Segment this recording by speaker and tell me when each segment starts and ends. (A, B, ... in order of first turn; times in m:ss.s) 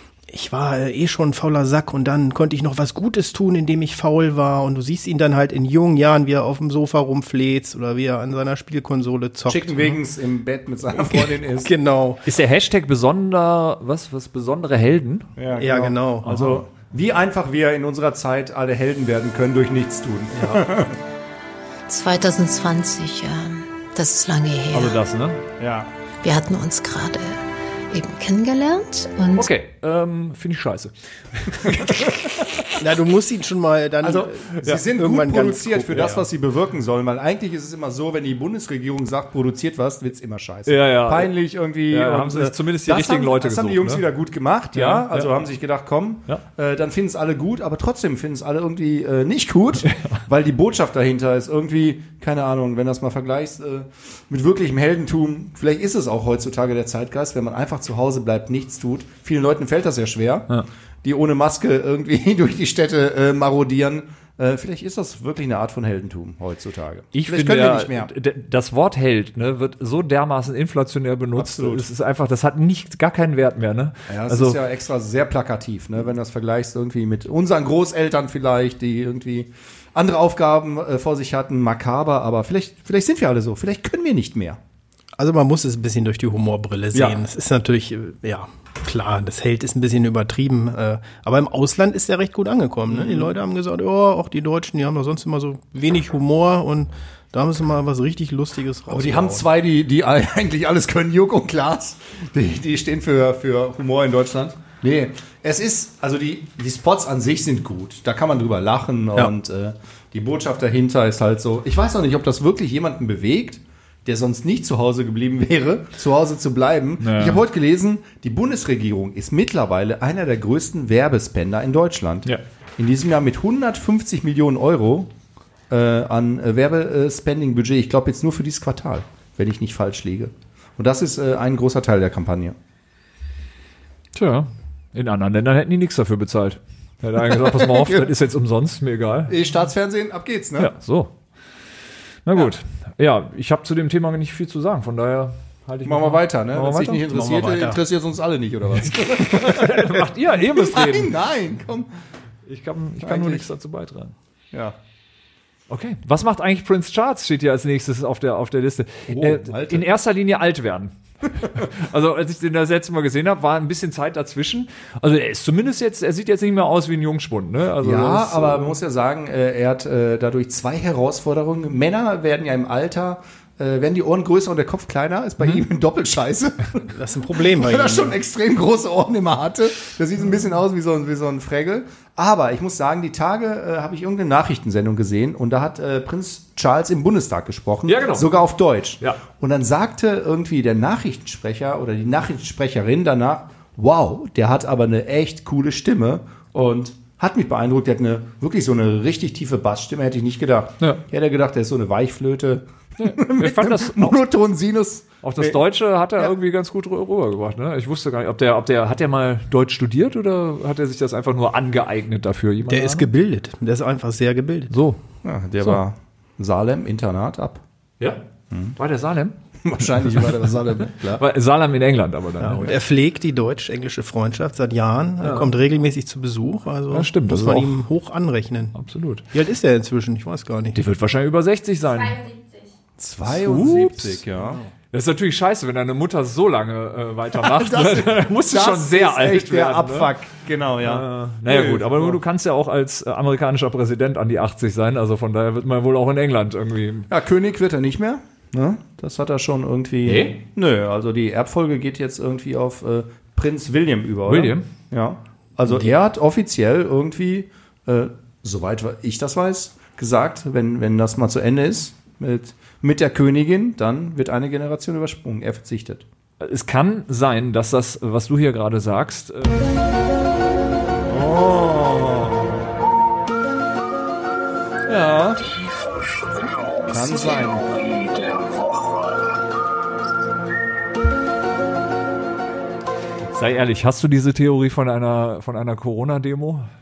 0:00.3-0:10.0 A
0:09.5-0:11.7 B
0:11.0-0:12.2 A
0:12.2-0:15.3 C
0:15.4-0:21.0 B
0:15.6-0:16.6 A
0:21.9-0:25.0 D
0:24.7-0:25.4 C
0:25.6-0:25.9 B
0:26.2-0:29.5 D
0:29.3-0:32.4 C
0:31.8-0:32.1 B
0:32.8-0:36.3 A
0:34.0-1:00.5 B
0:40.7-0:41.3 C
0:41.9-0:44.0 C
0:44.8-0:45.3 C
0:49.8-0:50.2 C
1:01.0-1:08.1 B
1:07.1-1:14.6 C
1:11.4-1:11.9 B
1:14.1-1:24.6 B
1:25.2-1:39.5 A
1:26.9-1:27.2 B
1:32.9-1:33.3 B
1:38.9-2:05.1 B
1:57.0-1:57.4 C
2:05.7-2:12.6 B
2:14.2-2:19.3 C
2:17.5-2:18.1 B
2:19.3-2:20.7 B
2:20.6-2:21.1 C
2:22.3-2:27.8 C
2:25.8-2:31.9 B
2:28.8-2:31.1 C
2:32.5-2:34.2 C
2:33.0-2:33.5 B
2:35.7-2:48.7 C
2:39.1-2:39.9 B
2:47.8-2:56.9 B
2:56.9-2:58.2 A
2:57.5-3:25.6 B
3:07.9-3:08.3 C
3:23.0-3:24.2 C
3:25.2-3:33.1 C
3:32.7-3:34.7 A
3:34.7-3:35.0 C
3:35.2-3:37.6 B
3:38.8-3:39.4 C
3:39.6-3:41.2 B
3:40.8-3:42.8 C
3:42.4-3:48.8 A
3:45.2-3:45.5 C
3:46.9-3:47.8 C
3:48.8-3:49.2 C
3:49.3-3:50.8 A
3:50.7-3:52.4 C
3:53.0-3:54.6 B
3:53.3-3:54.2 C
3:54.4-3:54.7 A
3:54.9-4:00.1 C
3:57.4-4:02.2 B
4:00.8-4:07.1 C
4:07.1-4:26.0 B
4:10.0-4:10.4 C
4:14.3-4:14.7 C
4:26.4-4:29.8 C
4:31.1-4:32.6 B
4:34.9-4:35.4 B
4:36.9-4:37.8 B
4:43.3-4:46.7 C